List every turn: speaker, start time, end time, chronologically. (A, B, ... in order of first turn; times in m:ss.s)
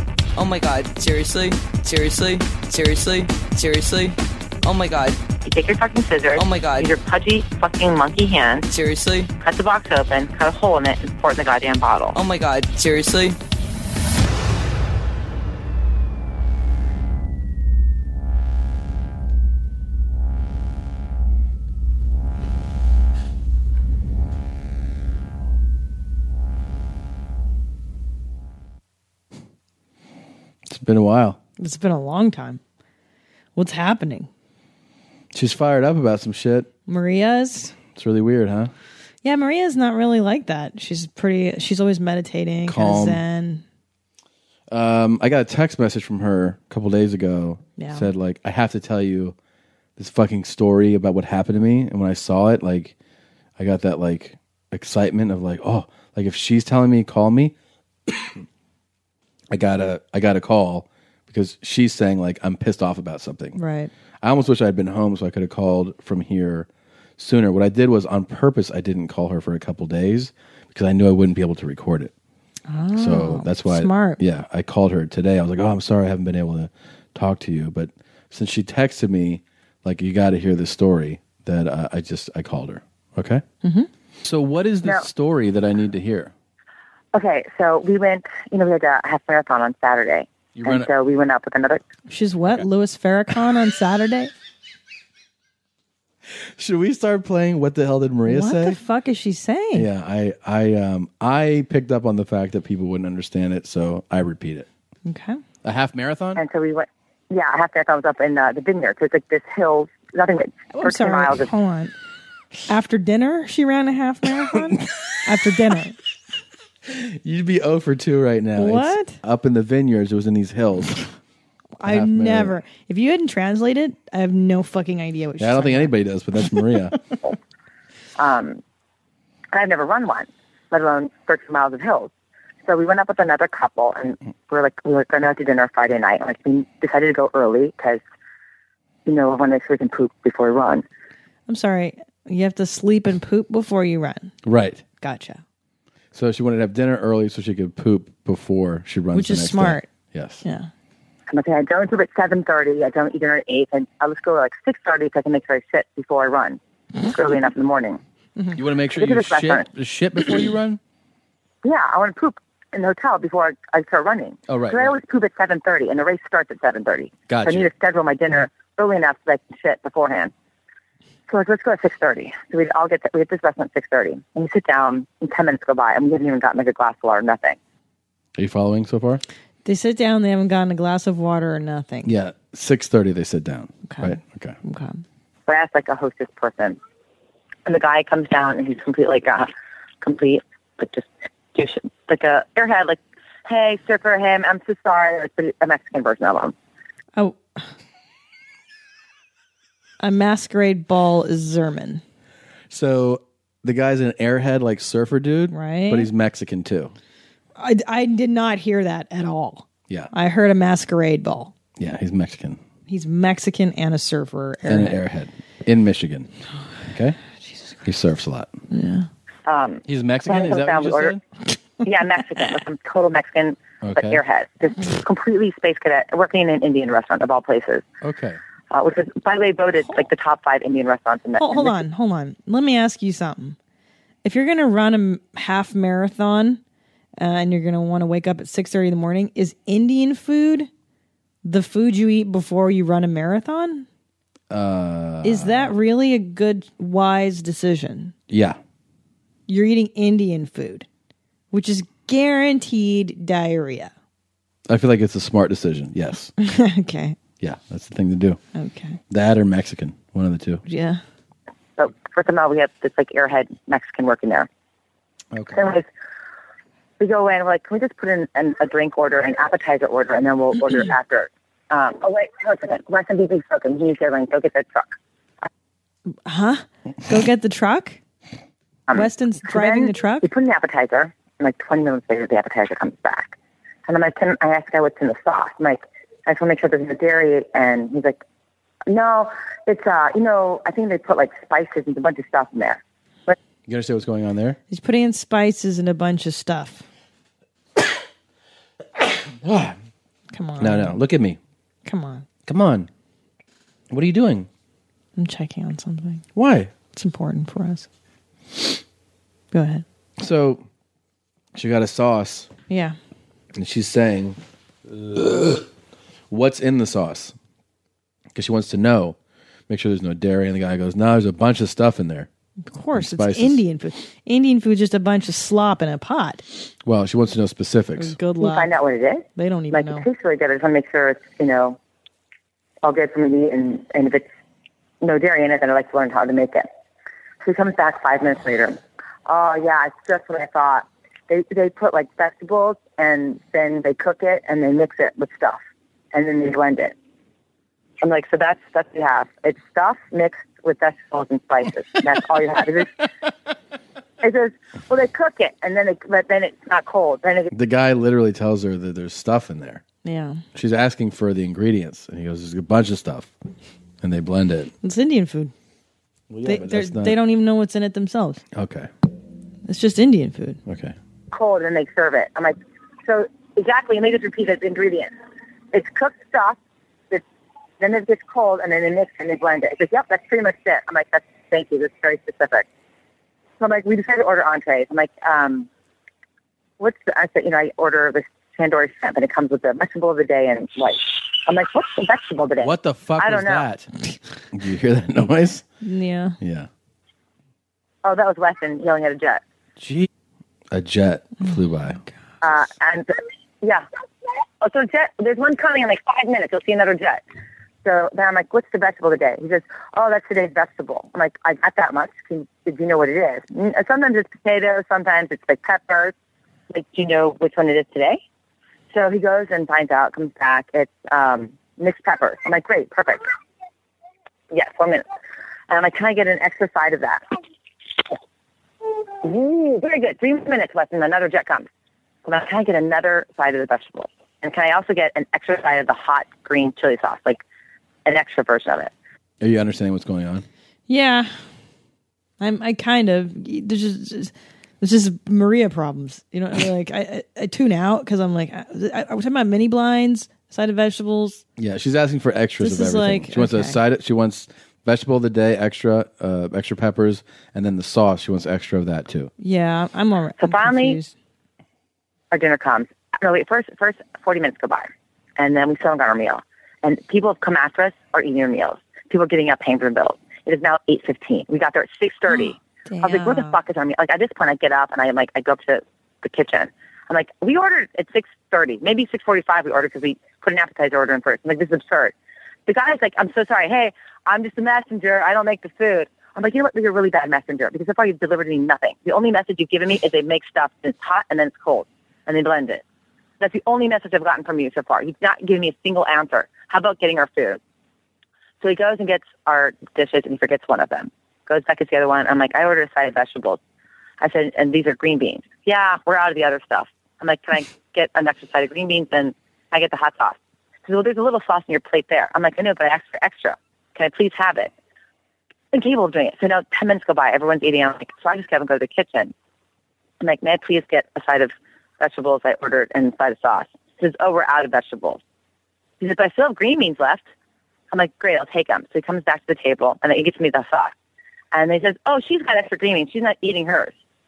0:00.4-0:05.2 A
0:05.4-0:08.6 B
0:06.4-0:07.0 A
0:08.7-0:09.3 A
0:09.4-0:12.2 B
0:12.1-0:13.4 A
0:30.7-0:31.4 C
0:31.6-0:32.6 D
0:33.6-0:34.3 D
0:35.3-0:36.7 C
0:36.9-0:37.8 D
0:37.9-0:38.7 C
0:39.2-0:43.6 D
0:42.7-0:43.2 C
0:44.7-0:49.4 C
0:47.8-0:48.1 D
0:50.0-0:53.0 C
0:53.6-0:57.5 C
0:59.5-1:03.6 C
1:03.6-1:03.9 D
1:04.2-1:12.1 C
1:12.7-1:14.2 D
1:13.0-1:23.4 C
1:23.6-1:23.9 D
1:24.2-1:26.3 C
1:27.1-1:31.8 B
1:30.6-1:30.9 C
1:32.1-1:34.3 D
1:36.6-1:38.8 C
1:38.3-1:39.9 D
1:39.7-1:44.7 C
1:45.0-1:45.4 D
1:45.6-1:46.4 C
1:46.4-1:51.5 B
1:50.7-1:51.9 D
1:52.7-1:56.0 D
1:56.9-2:01.0 C
1:58.6-1:59.2 D
2:01.8-2:05.9 D
2:01.8-2:02.6 C
2:05.4-2:07.0 C
2:08.2-2:08.6 B
2:09.5-2:12.1 B
2:12.7-2:18.0 B
2:19.1-2:20.8 B
2:21.5-2:24.4 D
2:24.4-2:24.8 C
2:25.0-2:25.4 D
2:26.1-2:30.4 C
2:29.1-2:29.9 D
2:30.4-2:30.7 D
2:31.3-2:38.0 B
2:38.6-2:40.8 C
2:39.0-2:39.7 B
2:41.6-2:50.3 B
2:44.5-2:45.0 C
2:47.3-2:47.7 C
2:51.3-2:57.6 B
2:58.4-2:59.2 C
2:59.6-3:02.1 D
3:02.0-3:04.6 C
3:03.9-3:05.0 D
3:05.5-3:06.8 B
3:07.7-3:09.5 B
3:10.0-3:16.5 B
3:17.2-3:17.7 D
3:20.0-3:22.0 D
3:22.7-3:27.0 C
3:25.5-3:26.1 D
3:27.6-3:31.5 D
3:31.8-3:32.6 C
3:32.9-3:35.0 D
3:34.6-3:36.3 C
3:36.9-3:37.2 C
3:37.4-3:37.8 D
3:37.8-3:38.5 C
3:38.7-3:39.1 D
3:39.5-3:41.2 B
3:39.8-3:41.2 C
3:41.8-3:47.8 B
3:43.8-3:44.2 C
3:48.0-3:48.4 C
3:48.7-3:51.8 B
3:49.8-3:50.1 D
3:51.4-3:53.6 D
3:54.2-3:56.6 D
3:57.2-4:00.7 D
4:01.4-4:03.9 D
4:04.5-4:05.7 C
4:05.2-4:08.1 D
4:08.3-4:08.6 C
4:09.5-4:10.9 D
4:11.5-4:13.9 D
4:14.7-4:16.3 C
4:16.4-4:17.2 D
4:17.4-4:18.4 C
4:18.6-4:19.0 D
4:19.1-4:20.6 C
4:20.6-4:21.0 D
4:21.8-4:24.5 B
4:25.3-4:25.7 C
4:25.5-4:25.9 B
4:27.0-4:34.9 B
4:36.1-4:38.0 D
4:38.9-4:43.4 B
4:38.9-4:40.3 D
4:43.9-4:48.2 B
4:48.9-4:53.4 B
4:53.7-4:54.6 C
4:54.7-4:56.8 D
4:59.4-4:59.8 C
5:00.3-5:01.0 D
5:00.6-5:01.4 C
5:01.8-5:02.3 D
5:02.5-5:02.9 C
5:03.9-5:04.5 C
5:05.2-5:06.3 D
5:06.4-5:06.7 C
5:06.9-5:07.9 D
5:09.5-5:09.8 D
5:10.2-5:10.6 C
5:11.6-5:12.5 C
5:12.7-5:13.0 D
5:13.6-5:14.4 C
5:15.0-5:15.6 C
5:16.3-5:17.4 C
5:18.4-5:19.2 C
5:19.7-5:22.3 C
5:22.7-5:26.4 D
5:22.9-5:23.6 C
5:26.8-5:28.2 C
5:28.0-5:28.7 D
5:28.4-5:31.8 B
5:29.4-5:30.1 D
5:32.8-5:34.3 B
5:35.0-5:36.7 B
5:37.4-5:45.6 B
5:46.1-5:47.0 B
5:48.0-5:53.0 B
5:54.2-5:57.5 B
5:57.5-5:59.8 C
6:00.0-6:00.4 D
6:00.5-6:03.3 C
6:04.0-6:04.7 C
6:04.8-6:05.5 D
6:06.3-6:07.2 C
6:06.4-6:08.4 D
6:08.5-6:08.9 C
6:09.6-6:10.6 D
6:10.7-6:11.0 C
6:11.3-6:15.1 B
6:15.7-6:16.6 B
6:17.8-6:22.7 B
6:23.6-6:25.7 B
6:26.8-6:33.7 B
6:32.6-6:33.9 C
6:34.5-6:35.7 C
6:35.8-6:36.4 D
6:36.4-6:36.7 C
6:38.0-6:39.4 B
6:39.8-6:40.1 C
6:40.7-6:42.0 C
6:41.4-6:42.1 D
6:42.4-6:43.1 B
6:44.6-6:47.2 B
6:47.8-6:56.1 B
6:56.7-6:58.2 B
6:58.9-7:03.3 B
7:04.5-7:05.1 B
7:05.7-7:07.2 B
7:09.2-7:11.7 B
7:12.2-7:17.4 B
7:18.0-7:18.9 B
7:19.4-7:20.4 C
7:20.9-7:21.3 D
7:22.4-7:31.4 D
7:31.6-7:39.3 C
7:32.6-7:33.8 D
7:39.4-7:41.1 D
7:40.4-7:41.0 B
7:42.3-8:02.1 B
7:52.3-7:53.6 D
8:02.7-8:12.8 B
8:13.4-8:17.6 B
8:18.6-8:23.6 B
8:24.2-8:34.7 B
8:35.7-8:39.3 B
8:40.2-8:45.2 B
8:46.0-8:47.2 B
8:47.9-8:50.9 B
8:51.5-8:53.9 B